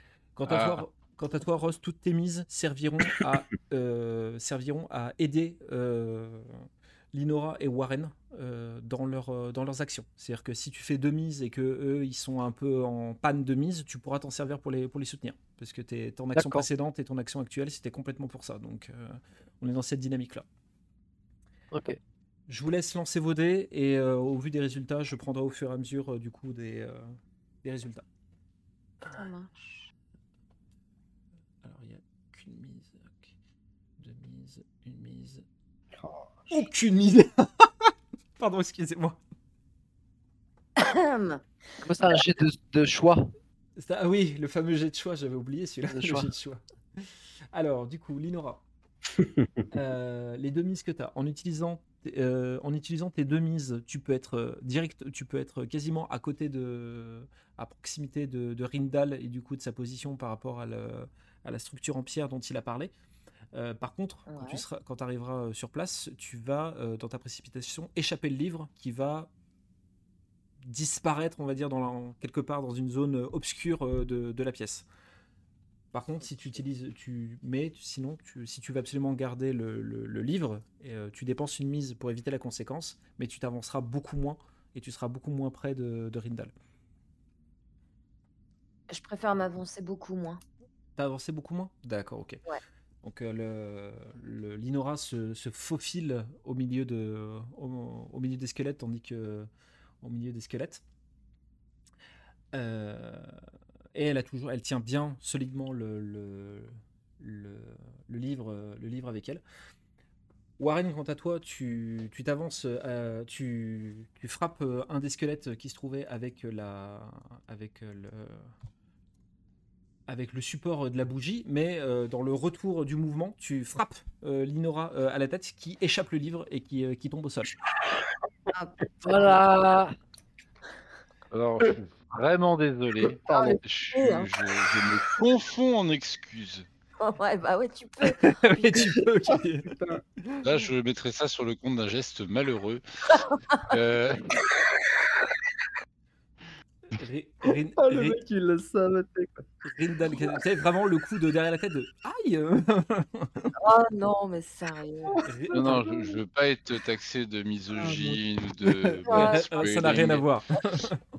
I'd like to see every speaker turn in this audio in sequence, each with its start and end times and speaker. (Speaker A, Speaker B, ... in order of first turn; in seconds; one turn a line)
Speaker A: 0.3-20.4
Speaker B: 0.5-0.8
Speaker C: 16.4-16.6
Speaker C: 21.7-22.0
Speaker A: 22.5-28.0
Speaker D: 29.1-29.9
Speaker A: 31.6-33.3
Speaker A: 34.0-35.4
Speaker E: 35.9-36.6
Speaker A: 36.5-39.2
Speaker D: 40.8-41.4
Speaker C: 41.8-43.3
Speaker A: 43.8-48.6
Speaker C: 45.9-46.3
Speaker E: 49.2-49.6
Speaker A: 49.7-62.9
Speaker A: 63.5-69.3
Speaker D: 64.3-64.6
Speaker A: 70.6-74.8
Speaker A: 75.9-86.5
Speaker D: 88.9-90.4
Speaker A: 91.0-92.4
Speaker A: 93.0-99.5
Speaker A: 100.0-100.8
Speaker A: 102.5-103.4
Speaker A: 103.9-109.4
Speaker A: 110.6-118.5
Speaker A: 120.1-127.5
Speaker D: 128.5-129.4
Speaker C: 129.0-129.9
Speaker B: 131.3-136.7
Speaker E: 133.2-133.6
Speaker D: 133.3-134.6
Speaker D: 137.0-139.0
Speaker A: 138.1-140.4
Speaker E: 139.6-140.0
Speaker B: 140.4-144.5
Speaker A: 146.9-148.2
Speaker E: 147.8-149.5
Speaker A: 149.6-153.6
Speaker E: 150.1-150.4
Speaker D: 153.6-155.3
Speaker E: 155.1-156.2
Speaker A: 155.2-155.8
Speaker B: 155.5-160.2
Speaker A: 158.6-161.0
Speaker D: 159.1-159.6